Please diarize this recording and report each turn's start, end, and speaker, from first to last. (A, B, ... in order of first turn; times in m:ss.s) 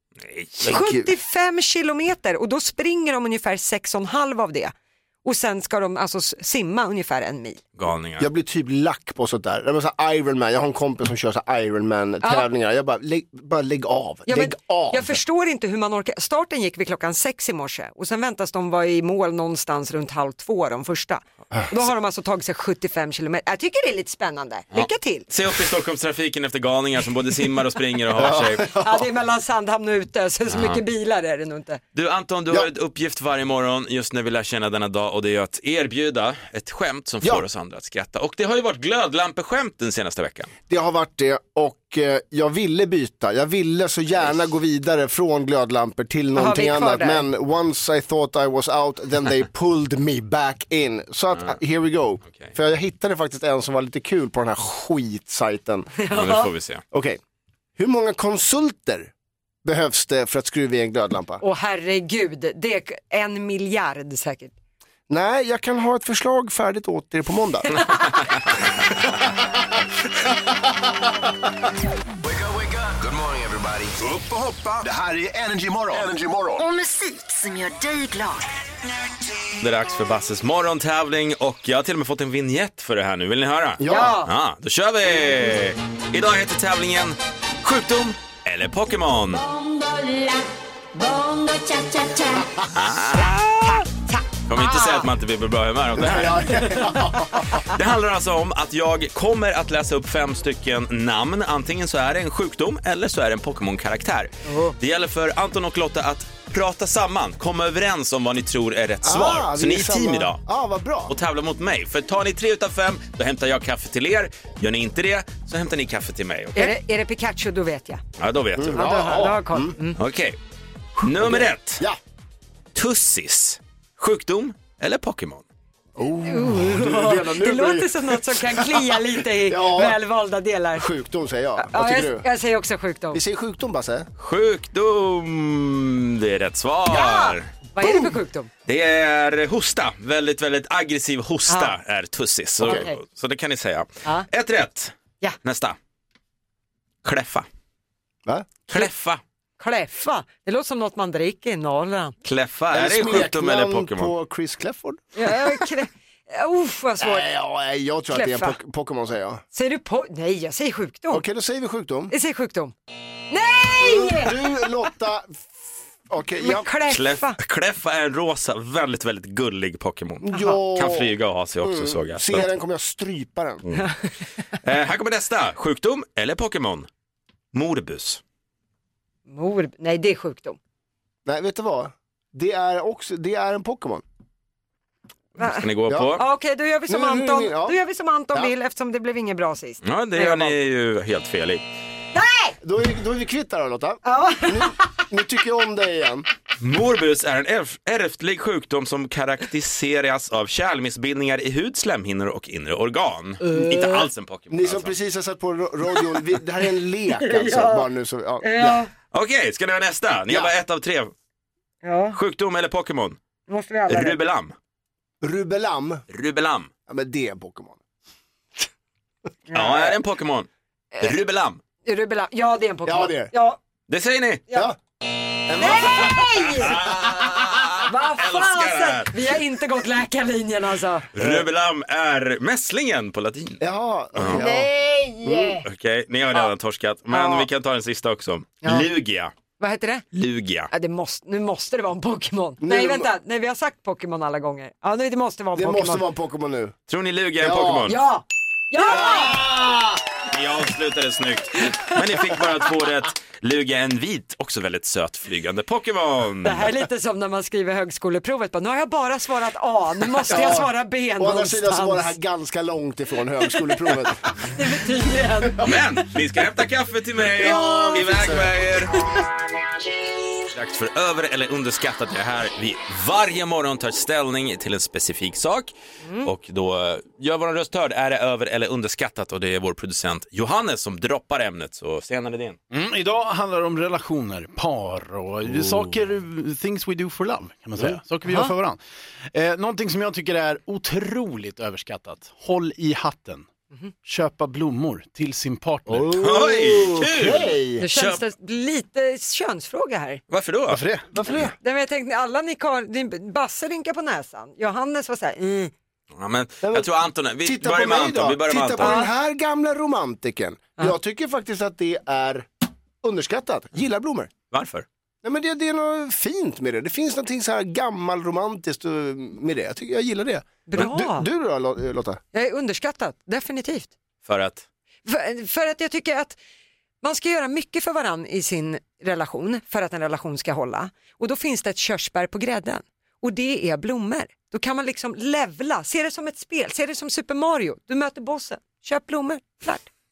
0:00.2-0:00.8 A
0:00.6-0:01.1 B
0:00.6-0:04.7 C
0:05.2-0:07.6 C
0:07.8-0:08.3 A
0:08.2-0:15.2 B
0:14.3-0:25.3 C
0:24.7-0:28.7 A
0:28.2-0:29.0 B
0:28.7-0:31.8 C
0:30.5-0:30.8 A
0:31.9-0:40.5 A
0:40.7-0:55.9 B
0:46.4-0:47.2 C
0:56.0-0:56.5 C
0:56.1-0:56.8 A
0:56.9-0:57.2 B
0:57.8-0:59.1 B
0:59.6-1:01.4 B
1:01.4-1:04.5 C
1:05.1-1:07.8 B
1:12.2-1:16.7 D
1:16.6-1:18.5 E
1:19.6-1:29.4 A
1:23.8-1:24.2 B
1:23.8-1:24.3 C
1:29.5-1:29.8 E
1:31.1-1:31.9 E
1:32.7-1:33.8 A
1:33.6-1:35.1 C
1:34.5-1:37.0 A
1:36.0-1:37.5 B
1:37.5-1:50.4 A
1:44.4-1:44.7 C
1:49.0-1:51.1 B
1:51.1-1:56.7 A
1:56.5-1:58.0 C
1:58.2-1:58.9 A
1:58.6-1:59.8 B
1:58.8-2:00.0 C
2:00.0-2:00.4 A
2:01.0-2:01.8 A
2:01.0-2:02.0 B
2:02.7-2:05.4 A
2:06.0-2:10.0 B
2:06.2-2:10.8 C
2:10.8-2:12.3 B
2:11.6-2:13.2 C
2:13.1-2:14.1 B
2:14.2-2:17.5 A
2:16.9-2:18.5 C
2:17.8-2:18.1 B
2:18.6-2:25.8 A
2:22.6-2:22.8 B
2:22.6-2:23.0 C
2:27.0-2:27.4 A
2:28.2-2:28.8 B
2:28.7-2:29.2 A
2:29.6-2:32.1 C
2:32.2-2:34.1 A
2:32.7-2:35.4 B
2:35.2-2:37.3 C
2:37.0-2:39.4 B
2:38.1-2:38.6 C
2:39.5-2:41.2 C
2:41.1-2:42.1 B
2:42.1-2:42.7 C
2:43.3-2:44.4 C
2:43.8-2:45.5 B
2:46.1-2:46.7 B
2:46.4-2:47.4 C
2:46.9-2:52.5 A
2:50.2-2:53.6 B
2:54.6-2:56.9 A
2:57.5-2:58.2 A
2:59.3-3:00.6 C
3:01.2-3:04.0 B
3:05.4-3:05.6 C
3:05.4-3:06.2 A
3:05.9-3:06.2 B
3:06.2-3:10.6 C
3:06.9-3:07.8 B
3:09.8-3:11.6 A
3:12.1-3:12.6 C
3:12.6-3:16.2 B
3:14.0-3:15.0 C
3:16.6-3:25.0 A
3:23.5-3:23.9 C
3:24.5-3:28.8 B
3:27.2-3:27.8 C
3:28.4-3:28.9 C
3:29.1-3:31.1 A
3:31.8-3:32.2 C
3:32.1-3:33.2 A
3:33.5-3:34.2 C
3:33.9-3:34.5 A
3:35.2-3:36.0 B
3:36.1-3:36.7 A
3:36.9-3:37.8 B
3:39.5-3:40.5 A
3:39.5-3:39.9 B
3:41.0-3:41.6 A
3:41.8-3:43.6 C
3:42.8-3:43.3 B
3:43.9-3:44.4 A
3:44.5-3:44.8 B
3:45.5-3:47.2 B
3:45.6-3:46.7 C
3:46.5-3:49.1 A
3:47.8-3:51.1 C
3:51.1-3:53.6 A
3:51.2-3:51.4 B
3:53.6-3:54.7 B
3:54.1-3:54.4 A
3:54.3-3:55.6 C
3:55.2-3:55.6 B
3:55.6-3:59.3 A
3:57.1-3:57.5 C
3:58.6-3:58.9 C
3:59.6-4:00.0 C
4:00.1-4:00.7 A
4:00.7-4:06.0 C
4:02.6-4:03.1 B
4:05.5-4:06.7 B
4:06.9-4:08.0 A
4:07.4-4:07.9 B
4:07.9-4:09.4 C
4:08.8-4:10.0 B
4:10.3-4:16.7 A
4:16.4-4:22.1 C
4:20.3-4:24.3 B
4:24.5-4:25.7 C
4:25.5-4:25.7 B
4:25.6-4:29.1 A
4:27.4-4:28.4 B
4:27.4-4:28.1 C
4:30.5-4:42.6 A
4:42.7-4:48.8 F
4:45.5-4:45.9 A
4:49.3-4:53.5 F
4:54.0-4:56.2 F
4:55.9-4:57.8 B
4:56.1-4:58.2 A
4:57.8-5:00.2 C
5:00.3-5:00.8 A
5:00.7-5:01.5 B
5:01.6-5:05.7 C
5:06.2-5:08.9 A
5:06.6-5:06.9 B
5:07.4-5:12.5 B
5:08.8-5:09.1 C
5:13.0-5:14.3 B
5:14.5-5:14.8 A
5:15.2-5:22.2 B
5:20.7-5:21.3 C
5:22.3-5:23.9 C
5:24.2-5:24.6 A
5:25.0-5:26.4 C
5:27.0-5:39.9 C